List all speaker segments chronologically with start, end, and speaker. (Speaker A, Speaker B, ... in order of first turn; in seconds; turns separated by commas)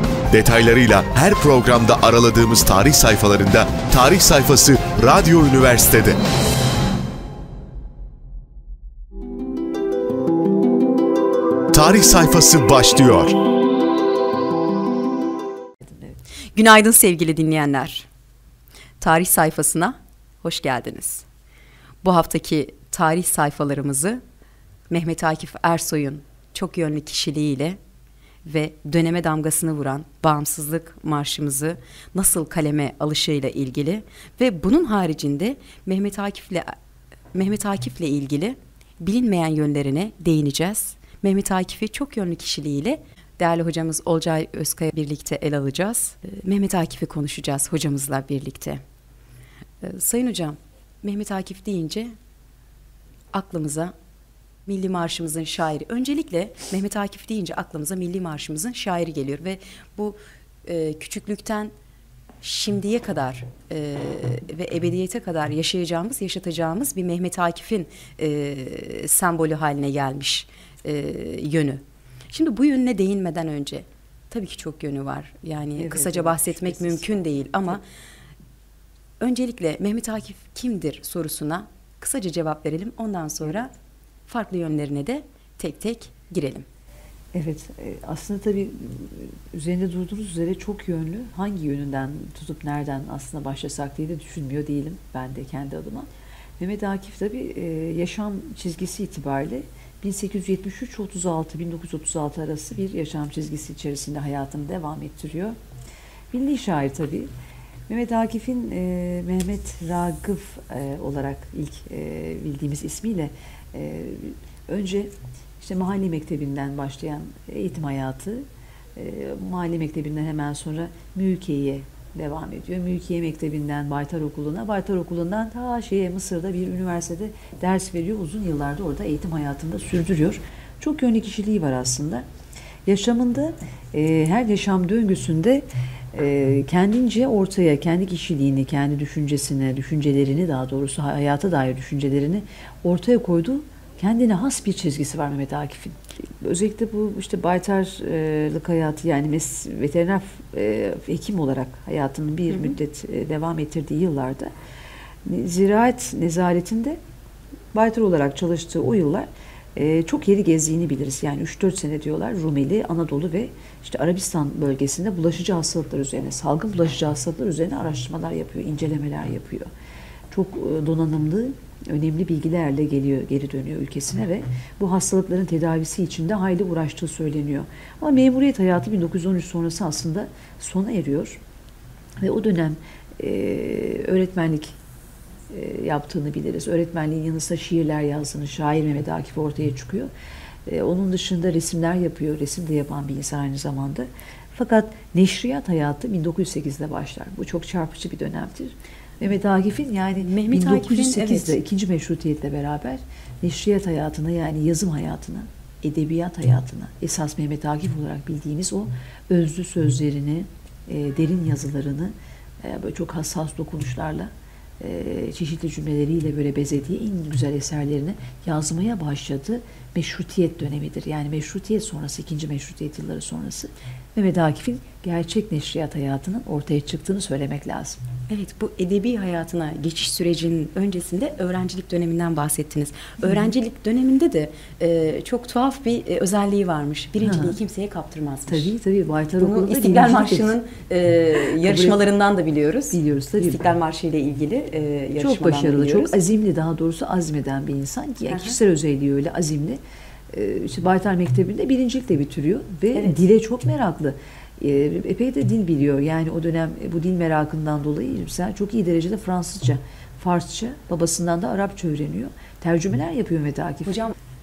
Speaker A: 0.3-6.2, Speaker A: 11.7-13.4, Speaker B: 15.8-16.2, Speaker C: 16.6-18.1, Speaker C: 19.0-21.2, Speaker C: 22.0-24.2, Speaker C: 24.9-27.8, Speaker C: 28.4-36.8, Speaker C: 37.3-48.8, Speaker C: 49.8-52.1, Speaker C: 53.3-53.9, Speaker C: 54.7-61.7, Speaker C: 62.4-77.8, Speaker B: 75.8-77.0, Speaker C: 79.2-83.7, Speaker C: 84.3-86.7, Speaker B: 87.3-105.6, Speaker B: 106.3-107.3, Speaker B: 107.9-132.2, Speaker B: 132.9-154.5, Speaker B: 155.2-157.0, Speaker B: 157.7-169.7, Speaker B: 170.3-181.4, Speaker B: 182.2-184.8, Speaker B: 185.5-190.1, Speaker B: 190.7-228.0, Speaker C: 200.2-201.6, Speaker C: 228.3-238.7, Speaker B: 233.2-233.5, Speaker B: 237.2-237.6, Speaker B: 238.5-240.5, Speaker C: 239.4-246.2, Speaker B: 241.4-242.0, Speaker B: 242.9-243.6, Speaker B: 245.2-264.0, Speaker C: 248.3-248.6, Speaker C: 252.9-253.2, Speaker C: 263.9-264.1